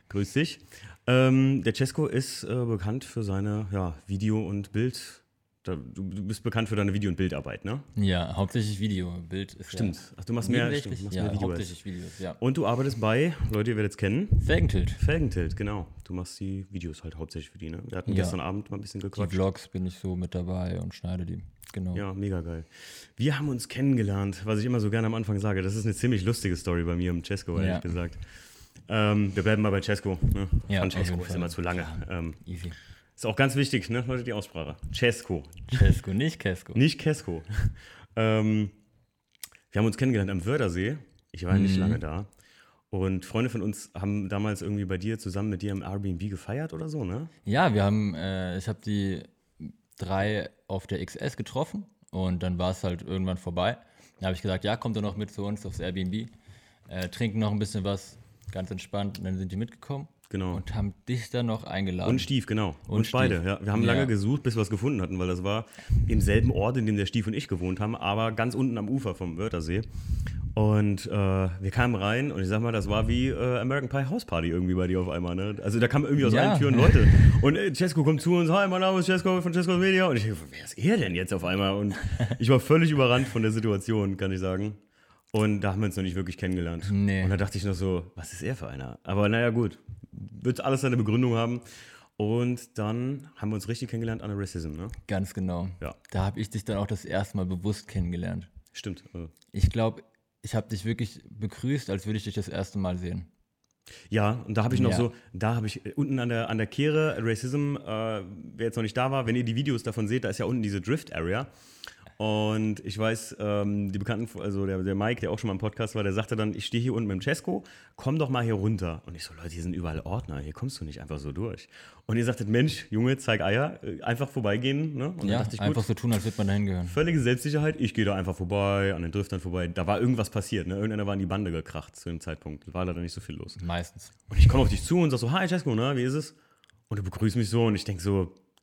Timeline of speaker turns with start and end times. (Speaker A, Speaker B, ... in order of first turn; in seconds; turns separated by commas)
Speaker A: 0.1-7.9, Speaker B: 8.0-12.4, Speaker A: 9.7-11.8, Speaker A: 12.4-19.4, Speaker B: 14.4-15.0, Speaker B: 18.1-18.4, Speaker B: 19.1-22.1, Speaker A: 21.9-28.3, Speaker B: 27.6-27.9, Speaker A: 28.9-32.4, Speaker B: 30.7-32.8, Speaker A: 33.2-35.9, Speaker B: 35.7-36.8, Speaker A: 36.7-38.8, Speaker A: 39.7-42.3, Speaker B: 41.5-42.0, Speaker A: 42.9-47.3, Speaker B: 47.5-56.3, Speaker B: 56.9-62.3, Speaker A: 60.3-60.6, Speaker A: 62.0-69.9, Speaker B: 62.9-64.1, Speaker A: 70.5-84.8, Speaker B: 76.2-77.3, Speaker B: 82.0-82.4, Speaker A: 85.3-95.0, Speaker B: 86.8-87.3, Speaker B: 95.1-98.5, Speaker A: 98.7-99.3, Speaker B: 99.5-103.3, Speaker A: 104.1-111.5, Speaker B: 104.7-105.1, Speaker A: 112.2-125.9, Speaker B: 125.2-127.0, Speaker A: 126.9-133.6, Speaker B: 133.6-134.2, Speaker A: 134.3-136.4, Speaker A: 136.9-138.4